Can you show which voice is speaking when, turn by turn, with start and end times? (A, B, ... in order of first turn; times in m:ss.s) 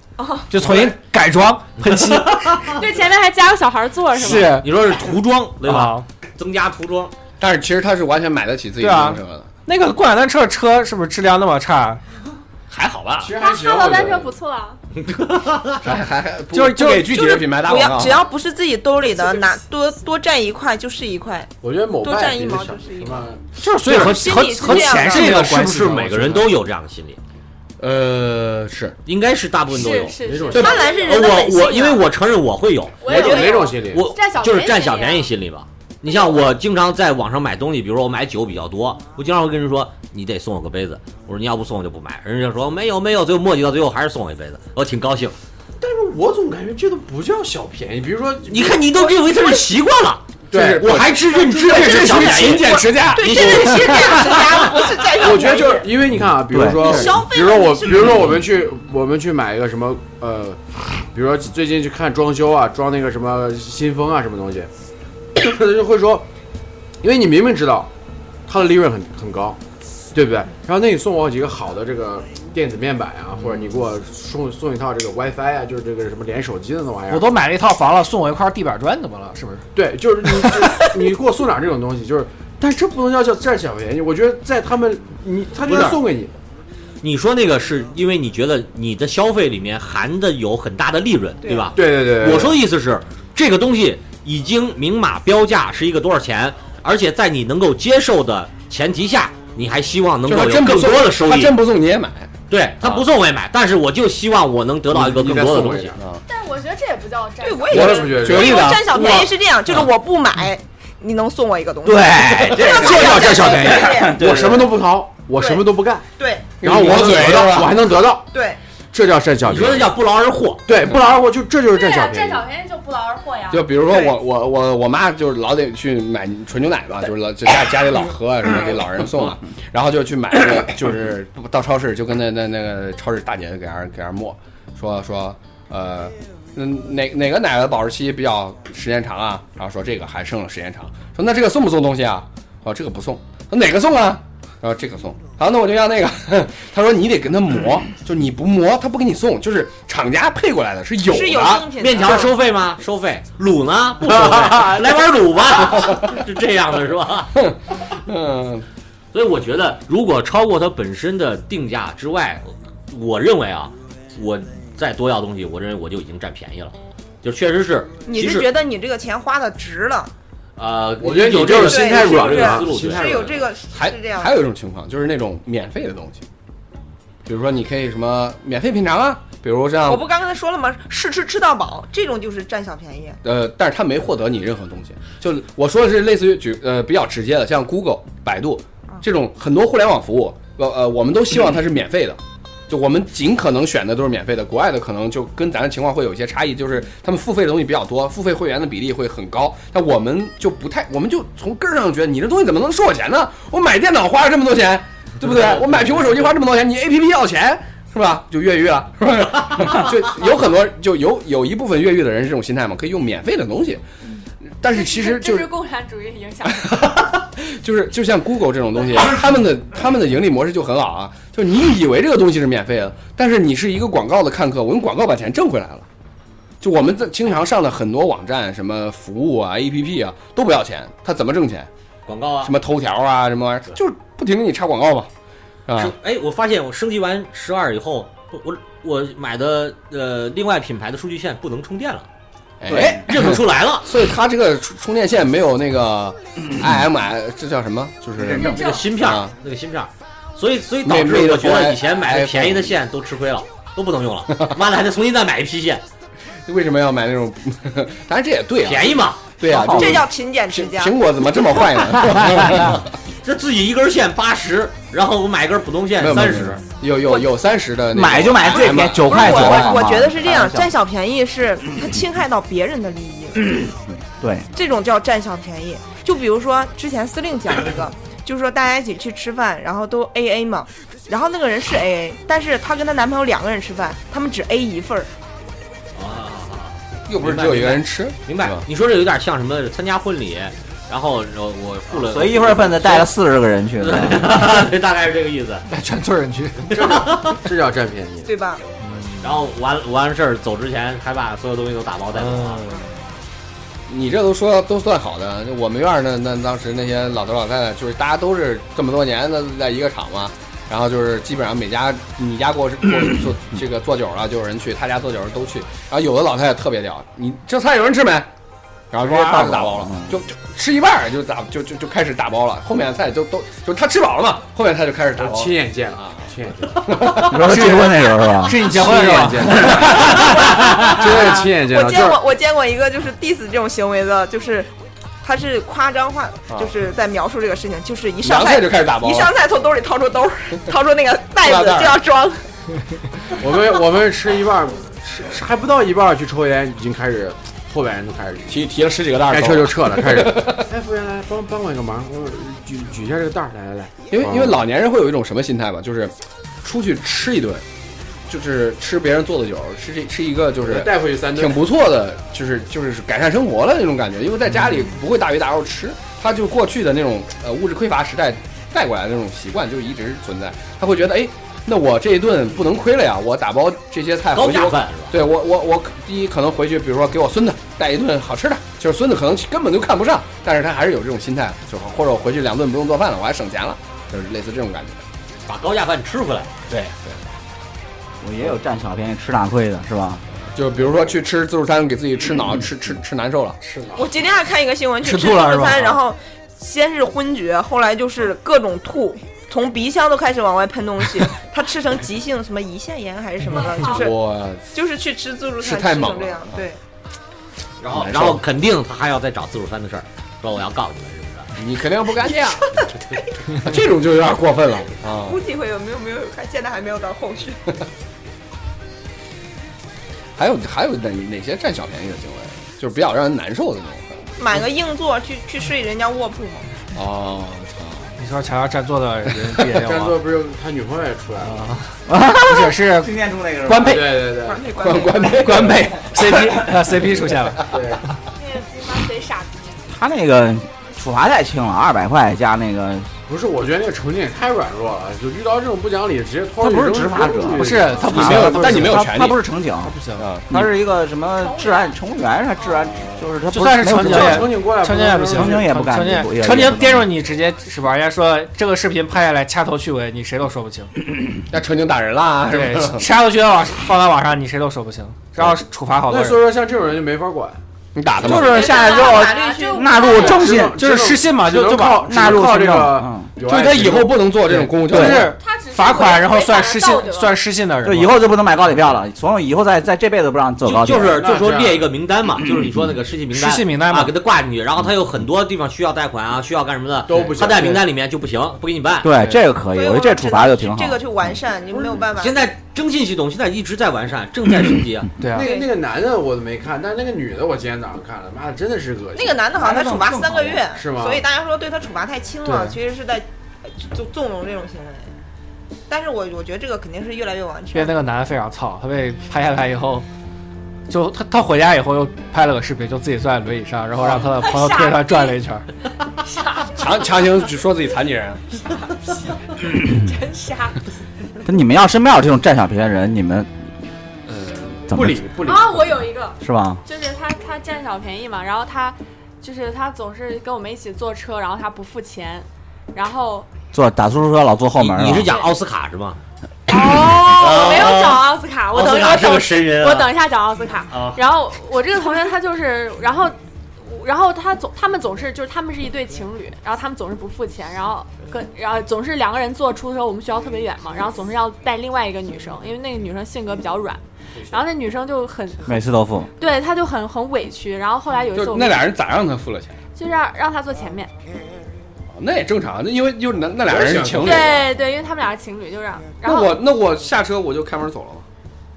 0:00.5-0:02.8 A
0:02.7-0:04.6 B
0:04.1-0:05.0 A
0:04.3-0:07.1 C
0:05.6-0:06.1 A
0:07.4-0:09.5 D
0:08.8-0:12.0 A
0:12.7-0:13.3 C
0:13.2-0:14.3 E
0:13.4-0:14.8 B
0:14.9-0:15.9 C
0:15.8-0:18.2 D
0:16.5-0:17.5 A
0:17.5-0:21.5 F
0:21.6-0:23.4 E
0:22.0-0:25.3 F
0:23.6-0:26.5 A
0:24.6-0:27.2 C
0:27.8-0:29.0 D
0:29.0-0:45.4 C
0:29.7-0:32.0 B
0:30.2-0:30.9 E
0:30.5-0:31.8 F
0:33.0-0:34.1 E
0:33.0-0:35.3 B
0:36.1-0:36.4 B
0:45.8-0:49.2 E
0:48.5-0:54.8 C
0:50.5-0:50.9 E
0:50.5-0:54.5 D
0:52.4-0:56.0 F
0:55.1-1:04.7 E
0:56.1-0:57.2 G
0:56.8-0:58.4 F
1:05.3-1:06.3 E
1:07.0-1:07.9 E
1:08.5-1:09.6 E
1:10.1-1:17.3 E
1:17.1-1:19.6 A
1:19.7-1:26.3 E
1:20.4-1:20.9 A
1:25.6-1:26.0 C
1:27.0-1:41.6 C
1:31.4-1:31.8 F
1:31.7-1:32.6 E
1:40.3-1:43.0 D
1:42.5-1:45.9 C
1:44.9-1:46.0 E
1:46.0-1:46.2 D
1:46.3-1:47.9 B
1:47.4-1:54.4 F
1:47.7-1:48.7 E
1:47.7-1:49.3 D
1:51.8-1:54.3 G
1:52.5-1:56.0 E
1:55.4-1:56.6 F
1:56.6-1:57.8 D
1:56.6-1:58.3 E
1:58.3-1:58.6 F
1:58.9-1:59.9 E
1:59.4-2:00.6 C
2:00.6-2:02.5 E
2:01.7-2:03.7 B
2:03.5-2:31.8 D
2:03.8-2:04.2 F
2:31.0-2:32.4 F
2:31.8-2:37.4 C
2:35.6-2:36.2 D
2:37.3-2:38.6 D
2:39.1-2:48.5 C
2:48.0-2:50.1 F
2:50.6-2:53.4 C
2:51.0-2:53.6 E
2:51.5-2:54.4 F
2:53.7-2:56.2 D
2:57.2-3:00.0 D
2:59.8-3:03.2 F
3:03.2-3:33.8 D
3:34.6-3:35.5 D
3:34.6-3:36.8 B
3:36.5-3:45.8 D
3:46.6-3:51.7 D
3:52.0-3:52.5 C
3:52.4-3:55.1 D
3:55.7-3:55.9 D
3:55.7-4:02.1 C
4:02.6-4:09.3 D
4:02.7-4:03.0 G
4:02.9-4:03.9 C
4:08.2-4:08.8 G
4:08.4-4:15.8 C
4:10.8-4:12.8 D
4:14.3-4:14.6 D
4:16.4-4:22.8 D
4:18.6-4:19.2 C
4:19.4-4:20.0 G
4:19.5-4:21.0 F
4:23.2-4:26.6 C
4:26.0-4:29.8 D
4:27.9-4:30.7 G
4:28.5-4:33.6 F
4:33.4-4:34.5 G
4:34.5-4:45.1 F
4:45.9-4:53.1 C
4:47.1-4:48.6 D
4:51.9-4:54.3 G
4:53.8-4:55.6 C
4:55.7-4:56.8 A
4:56.7-4:57.4 C
4:56.7-4:58.4 E
4:58.2-4:58.6 F
4:58.8-4:59.4 A
4:59.2-5:02.7 C
5:02.1-5:02.8 A
5:03.9-5:18.3 D
5:18.9-5:27.5 D
5:19.0-5:20.1 G
5:25.2-5:27.2 E
5:27.2-5:28.7 G
5:27.4-5:30.2 A
5:28.5-5:32.2 E
5:30.9-5:34.7 F
5:35.2-5:42.4 F
5:38.2-5:39.3 D
5:41.4-5:42.0 D
5:43.4-5:48.6 E
5:48.5-5:50.7 D
5:49.2-5:54.6 E
5:54.1-5:57.6 D
5:58.3-6:25.0 D
6:00.6-6:01.7 E
6:14.3-6:15.2 C
6:25.5-6:26.5 C
6:26.7-6:27.2 D
6:28.2-6:30.2 G
6:30.5-6:33.6 D
6:30.8-6:31.1 E
6:33.6-6:34.1 E
6:33.9-6:46.8 F
6:35.0-6:35.9 A
6:43.5-6:44.0 B
6:43.8-6:44.6 D
6:45.6-6:46.6 D
6:47.8-6:51.5 C
6:47.9-6:48.4 D
6:51.6-6:52.7 D
6:52.3-6:53.5 F
6:53.5-6:55.4 D
6:55.0-6:57.6 F
7:00.4-7:04.2 D
7:04.4-7:06.7 F
7:06.9-7:08.1 D
7:08.2-7:10.2 A
7:09.8-7:11.6 E
7:11.4-7:13.1 A
7:12.1-7:14.0 G
7:13.6-7:14.2 A
7:13.8-7:14.7 E
7:14.4-7:15.5 F
7:14.7-7:15.9 D
7:15.3-7:17.8 A
7:17.7-7:18.0 E
7:18.4-7:19.8 B
7:19.9-7:23.1 G
7:23.3-7:28.6 E
7:26.6-7:29.9 G
7:27.5-7:29.1 A
7:28.1-7:29.4 D
7:29.8-7:30.3 A
7:30.2-7:30.6 D
7:30.5-7:34.5 G
7:31.4-7:32.0 B
7:32.6-7:32.9 B
7:32.8-7:33.3 E
7:33.5-7:40.9 A
7:33.9-7:35.8 E
7:35.3-7:37.1 G
7:41.5-7:43.1 D
7:42.4-7:46.4 A
7:46.1-7:47.6 E
7:47.9-7:48.6 D
7:48.1-7:50.8 G
7:48.3-7:50.4 F
7:48.5-7:50.6 B
7:50.1-7:54.3 E
7:50.7-7:52.4 A
7:52.0-7:53.3 G
7:53.4-7:55.4 D
7:54.4-7:58.2 A
7:54.9-7:55.2 G
7:55.1-7:57.4 B
7:57.8-8:01.2 G
8:00.6-8:09.1 C
8:01.1-8:01.9 E
8:03.3-8:04.1 A
8:07.1-8:07.8 E
8:09.0-8:11.0 G
8:09.1-8:09.4 A
8:09.7-8:12.5 F
8:12.2-8:15.1 C
8:15.2-8:15.5 A
8:15.3-8:19.5 E
8:15.4-8:15.7 F
8:19.1-8:25.1 F
8:19.5-8:20.7 G
8:20.7-8:21.2 E
8:25.9-8:28.0 F
8:27.7-8:30.0 A
8:30.9-8:35.7 A
8:34.3-8:35.4 B
8:36.2-8:37.2 B
8:36.8-8:38.4 D
8:38.8-8:40.8 B
8:41.4-8:43.5 G
8:44.3-8:44.8 D
8:44.9-8:45.3 G
8:44.9-8:46.0 E
8:45.4-8:53.5 B
8:46.4-8:46.8 G
8:53.7-8:55.3 G
8:54.8-8:56.2 C
8:56.7-9:15.8 B
8:57.2-9:00.1 C
9:00.9-9:01.2 C
9:14.3-9:14.6 E
9:15.6-9:16.3 G
9:16.4-9:18.9 B
9:18.3-9:19.7 D
9:20.0-9:21.1 B
9:22.1-9:24.6 D
9:23.6-9:24.7 E
9:24.2-9:26.6 B
9:26.2-9:28.2 D